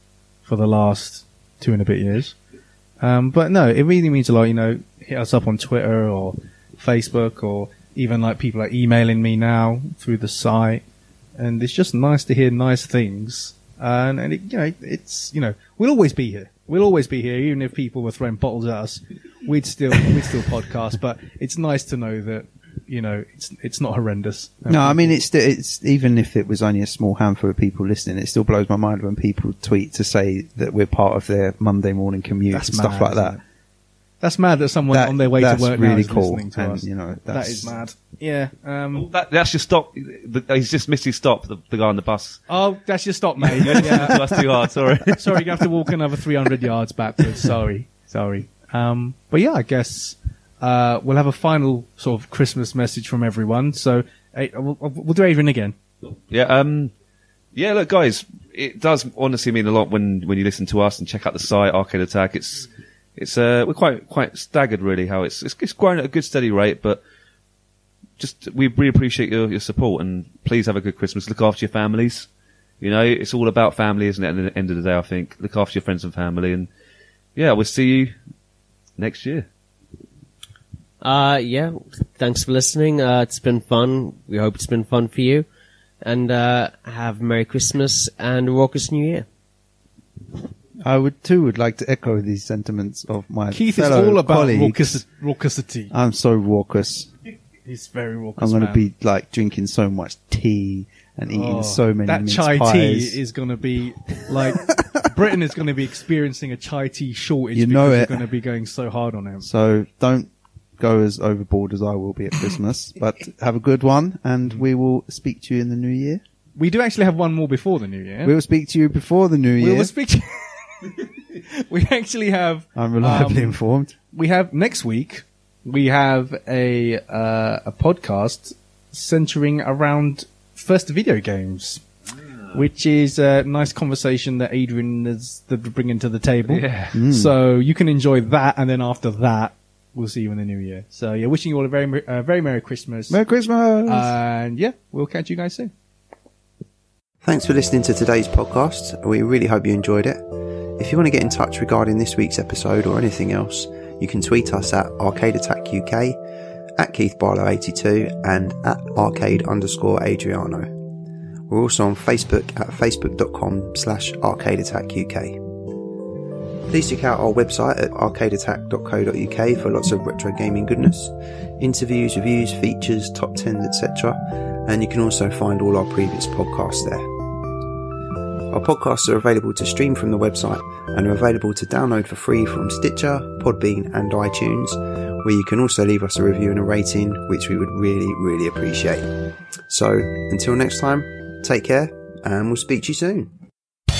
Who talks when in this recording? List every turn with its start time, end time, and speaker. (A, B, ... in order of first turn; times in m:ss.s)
0:00.4-0:02.4 A
0:03.0-0:10.8 A
0:11.4-0:25.2 A
0:24.7-0:33.4 B
0:32.5-0:33.4 A
0:34.2-0:39.1 A
0:34.9-0:37.8 B
0:39.0-0:42.4 C
0:42.5-0:44.4 A
0:43.6-0:45.6 C
0:45.1-0:55.7 A
0:56.3-0:56.9 C
0:57.6-1:07.0 C
1:08.2-1:12.3 C
1:12.8-1:16.7 C
1:17.4-1:18.1 C
1:19.0-1:19.4 C
1:21.0-1:25.4 D
1:26.0-1:29.3 D
1:30.8-1:35.0 B
1:33.5-1:35.9 A
1:35.9-1:37.1 B
1:37.7-1:38.9 A
1:38.4-1:43.2 B
1:41.3-1:49.5 A
1:47.6-1:48.3 B
1:49.4-1:56.2 B
1:56.6-1:58.4 A
1:58.2-1:59.9 B
1:59.6-2:03.6 A
2:02.7-2:04.0 B
2:04.1-2:11.8 A
2:12.5-2:23.2 A
2:16.5-2:16.9 C
2:16.9-2:17.4 B
2:23.1-2:24.1 B
2:23.8-2:25.7 A
2:27.3-2:30.2 B
2:27.5-2:30.0 E
2:30.8-2:36.0 E
2:30.8-2:36.1 B
2:36.8-2:40.6 E
2:36.8-2:40.6 B
2:41.5-2:45.2 E
2:41.5-2:45.3 B
2:46.7-2:51.1 B
2:46.7-2:51.0 E
2:51.6-2:54.1 E
2:51.6-2:54.1 B
2:54.7-2:56.9 E
2:54.7-2:57.0 B
2:58.6-3:04.7 B
2:58.6-3:04.7 E
3:05.3-3:09.0 E
3:05.3-3:09.0 B
3:09.7-3:13.2 E
3:09.7-3:11.0 B
3:11.6-3:13.2 B